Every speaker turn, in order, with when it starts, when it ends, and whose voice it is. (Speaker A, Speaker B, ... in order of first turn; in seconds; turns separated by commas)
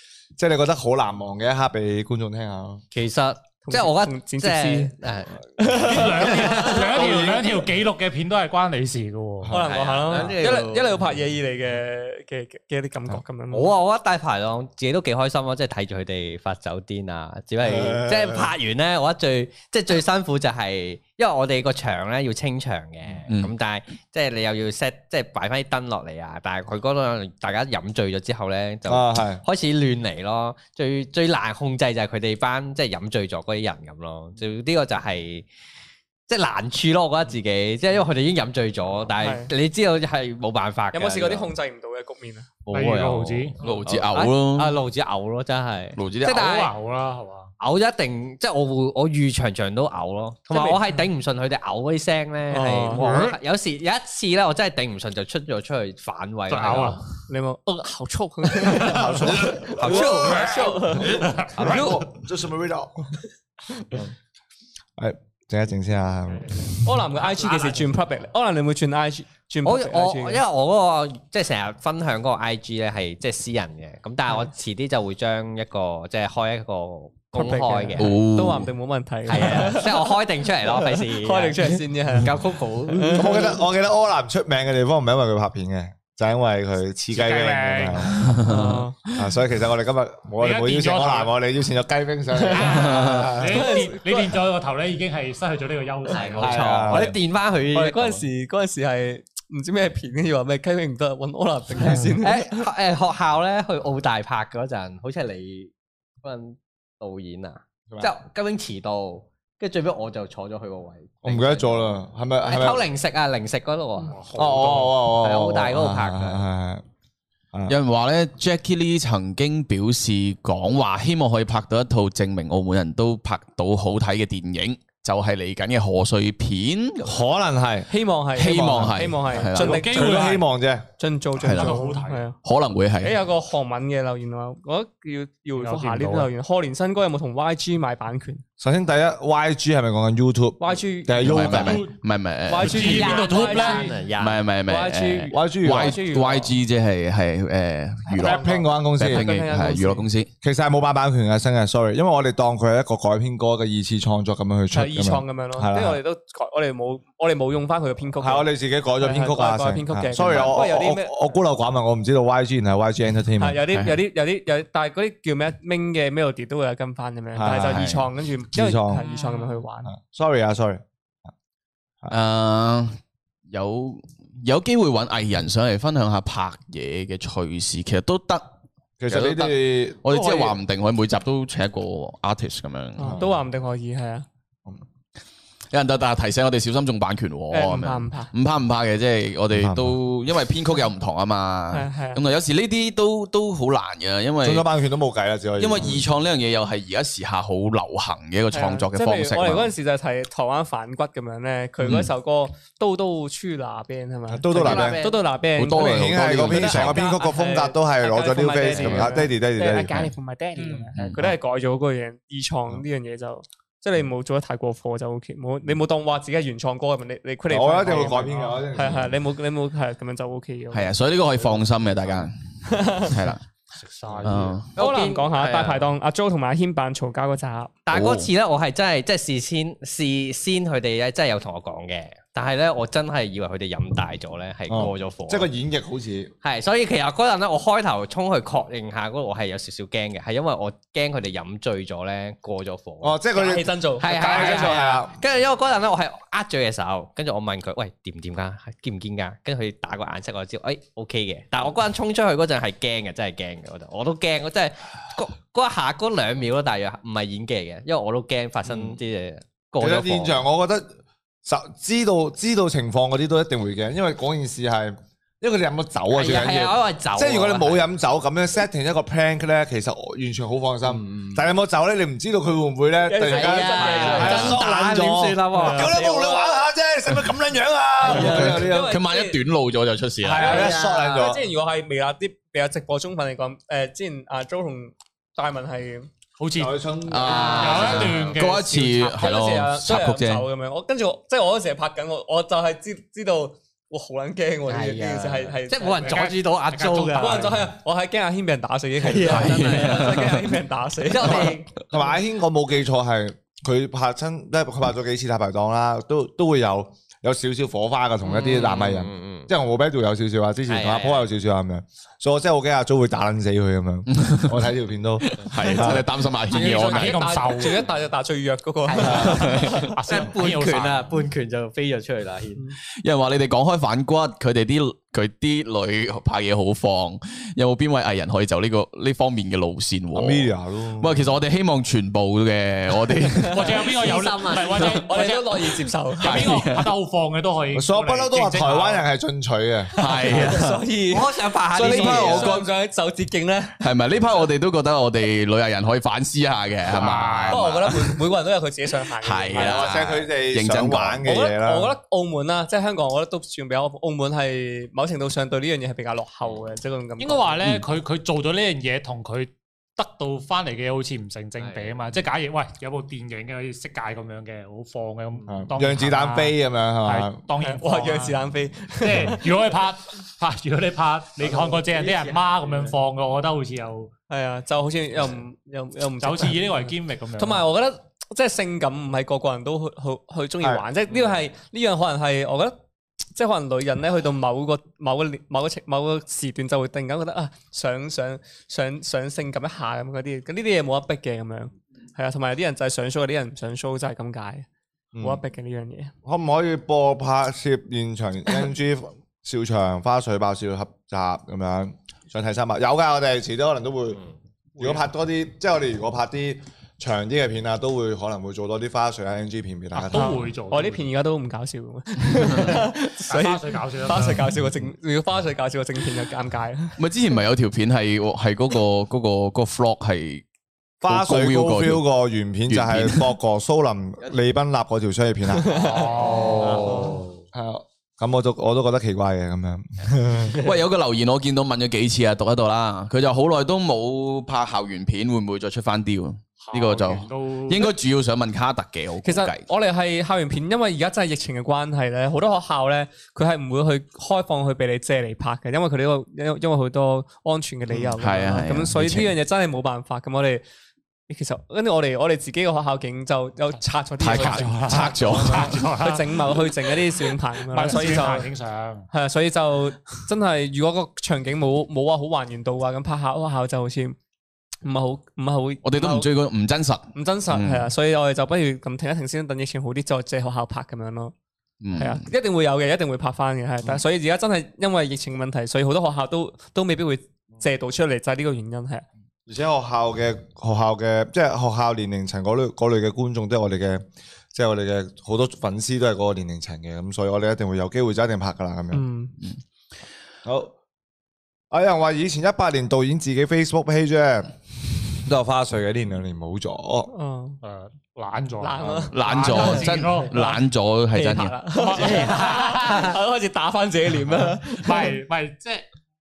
Speaker A: 0.4-2.8, Speaker B: 2.9-5.4, Speaker C: 3.7-5.0, Speaker C: 5.6-6.8, Speaker D: 5.7-9.6, Speaker B: 6.0-7.0, Speaker A: 7.0-7.6, Speaker C: 9.5-13.8, Speaker B: 9.6-11.0, Speaker B: 13.5-35.5, Speaker A: 17.6-18.5, Speaker A: 28.9-29.4, Speaker B: 36.3-41.5, Speaker C: 39.2-39.5, Speaker C: 40.9-42.5, Speaker B: 42.7-46.7, Speaker D: 42.7-43.6, Speaker E: 43.6-44.8, Speaker E: 46.0-46.5, Speaker D: 46.4-47.5, Speaker B: 47.6-57.0, Speaker C: 50.5-50.8, Speaker C: 52.5-53.3, Speaker D: 53.0-53.3, Speaker D: 56.5-57.0, Speaker C: 57.3-61.3, Speaker D: 58.6-59.5, Speaker A: 58.9-63.1, Speaker B: 59.4-60.8, Speaker D: 61.0-62.1, Speaker B: 61.6-62.0, Speaker A: 65.0-66.8, Speaker D: 66.3-67.9, Speaker C: 66.8-70.4, Speaker B: 69.7-78.2, Speaker C: 77.3-80.1, Speaker E: 78.0-78.7, Speaker B: 79.3-83.5, Speaker C: 80.7-83.6, Speaker A: 83.1-88.4, Speaker D: 87.1-88.4, Speaker E: 88.4-88.8, Speaker C: 88.4-89.0, Speaker A: 89.1-93.7, Speaker D: 90.4-91.3, Speaker D: 92.5-97.0, Speaker E: 92.7-93.3, Speaker C: 93.5-94.3, Speaker B: 96.1-98.3, Speaker A: 96.4-97.2, Speaker C: 97.7-102.7, Speaker B: 102.2-105.7, Speaker B: 106.2-114.2, Speaker A: 111.2-112.9, Speaker D: 114.1-115.0, Speaker A: 114.3-116.8, Speaker B: 115.0-116.4, Speaker E: 117.7-127.2, Speaker A: 127.0-127.9, Speaker C: 127.9-130.4, Speaker E: 128.3-129.8, Speaker A: 128.4-129.0, Speaker D: 129.6-130.4, Speaker A: 129.6-130.8, Speaker C: 131.0-132.4, Speaker E: 131.4-131.8, Speaker D: 131.5-132.3, Speaker E: 132.4-133.2, Speaker C: 133.0-138.4, Speaker D: 135.6-136.3, Speaker A: 138.6-141.8, Speaker C: 140.6-141.7, Speaker E: 141.2-143.1, Speaker D: 141.4-141.9, Speaker C: 142.5-144.0, Speaker D: 142.6-144.0, Speaker B: 142.8-144.4, Speaker E: 144.2-150.3, Speaker C: 144.7-146.5, Speaker A: 145.3-146.0, Speaker C: 148.1-150.1, Speaker A: 148.1-149.3, Speaker A: 150.4-156.0, Speaker C: 154.7-161.3, Speaker A: 158.2-163.6, Speaker C: 163.4-169.9, Speaker E: 163.7-164.0, Speaker A: 167.3-169.1, Speaker E: 167.6-168.1, Speaker D: 168.9-169.6, Speaker A: 169.9-170.8, Speaker E: 172.1-173.0, Speaker E: 173.5-178.5, Speaker A: 179.0-180.6, Speaker E: 179.1-183.2, Speaker C: 183.0-184.3, Speaker A: 183.0-183.4, Speaker E: 185.7-194.7, Speaker C: 187.5-188.3, Speaker A: 189.5-190.0, Speaker C: 191.7-192.2, Speaker A: 194.4-196.1, Speaker E: 195.6-199.7, Speaker C: 198.5-209.4, Speaker E: 201.8-202.1, Speaker A: 204.3-205.1, Speaker B: 204.5-205.2, Speaker E: 205.6-207.0, Speaker A: 205.7-210.1, Speaker B: 209.6-210.7, Speaker C: 210.0-220.9, Speaker D: 210.6-210.9, Speaker E: 210.9-211.2, Speaker A: 217.5-219.2, Speaker E: 220.7-223.4, Speaker C: 222.7-223.2, Speaker D: 223.8-224.6, Speaker E: 224.2-224.7, Speaker B: 224.8-225.9, Speaker C: 224.8-227.7, Speaker B: 227.9-235.5, Speaker E: 227.9-228.3, Speaker A: 234.7-236.3, Speaker B: 236.4-243.2, Speaker A: 243.0-245.2, Speaker C: 243.3-244.9, Speaker B: 244.0-260.4, Speaker A: 258.7-258.9, Speaker A: 259.8-260.9, Speaker A: 261.4-279.0, Speaker B: 266.1-267.9, Speaker B: 270.9-271.4, Speaker C: 273.0-274.6, Speaker B: 273.2-276.4, Speaker E: 274.2-274.5, Speaker C: 275.5-276.4, Speaker C: 278.0-279.4, Speaker B: 278.1-278.6, Speaker E: 278.1-280.7, Speaker A: 280.2-281.4, Speaker B: 280.4-281.3, Speaker C: 280.5-286.1, Speaker D: 286.4-286.8, Speaker A: 286.6-288.1, Speaker E: 287.1-290.5, Speaker B: 287.2-288.2, Speaker D: 287.5-289.0, Speaker C: 288.9-296.4, Speaker B: 294.7-297.6, Speaker D: 296.0-297.6, Speaker C: 297.1-301.6, Speaker B: 299.0-300.2, Speaker E: 299.2-300.5, Speaker B: 301.1-301.9, Speaker A: 301.3-316.1, Speaker B: 308.2-309.5, Speaker B: 310.7-311.3, Speaker E: 314.1-314.6, Speaker E: 315.3-317.4, Speaker C: 316.5-319.9, Speaker D: 316.5-317.9, Speaker B: 318.9-322.6, Speaker E: 319.0-319.9, Speaker A: 319.1-319.4, Speaker D: 319.9-321.1, Speaker E: 323.0-333.9, Speaker A: 330.1-331.3, Speaker C: 333.2-333.9, Speaker D: 333.5-339.0, Speaker B: 334.0-334.9, Speaker C: 334.8-336.6, Speaker E: 336.2-336.9, Speaker A: 337.7-339.9, Speaker E: 340.0-340.8, Speaker C: 340.0-343.8, Speaker B: 341.1-342.6, Speaker E: 341.8-342.7, Speaker E: 343.8-348.2, Speaker D: 346.9-347.7, Speaker C: 347.5-349.9, Speaker E: 349.2-351.3, Speaker A: 349.5-351.9, Speaker C: 351.2-357.6, Speaker D: 357.2-368.4, Speaker B: 361.6-362.0, Speaker A: 365.5-367.4, Speaker C: 367.6-369.4, Speaker D: 369.0-374.1, Speaker B: 371.5-372.9, Speaker C: 374.3-376.7, Speaker D: 376.2-377.7, Speaker C: 377.4-382.8, Speaker C: 383.4-394.7, Speaker A: 395.1-395.4, Speaker C: 395.2-396.1, Speaker A: 396.2-404.2, Speaker A: 404.8-410.4, Speaker D: 409.9-411.1, Speaker C: 410.1-417.0, Speaker D: 413.3-414.6, Speaker E: 417.0-420.4, Speaker A: 421.0-425.9, Speaker E: 421.1-422.0, Speaker E: 422.7-423.3, Speaker C: 425.6-426.2, Speaker D: 425.8-427.1, Speaker B: 426.0-427.3, Speaker A: 426.6-430.6, Speaker E: 430.5-439.6, Speaker D: 436.6-437.9, Speaker C: 439.2-450.6, Speaker E: 447.9-449.3, Speaker C: 451.3-458.5, Speaker E: 454.2-455.9, Speaker D: 454.4-456.5, Speaker D: 457.7-459.1, Speaker C: 459.1-464.2, Speaker C: 464.8-466.3, Speaker E: 465.8-467.9, Speaker C: 467.1-471.3, Speaker E: 471.8-472.3, Speaker C: 472.0-479.1, Speaker A: 479.5-489.0, Speaker C: 488.9-489.4, Speaker A: 490.4-490.7, Speaker A: 491.7-494.5, Speaker A: 495.1-497.1, Speaker C: 497.1-497.6, Speaker D: 497.6-500.6, Speaker C: 498.6-499.9, Speaker E: 499.1-501.6, Speaker C: 501.1-505.2, Speaker D: 501.7-503.1, Speaker D: 504.6-505.9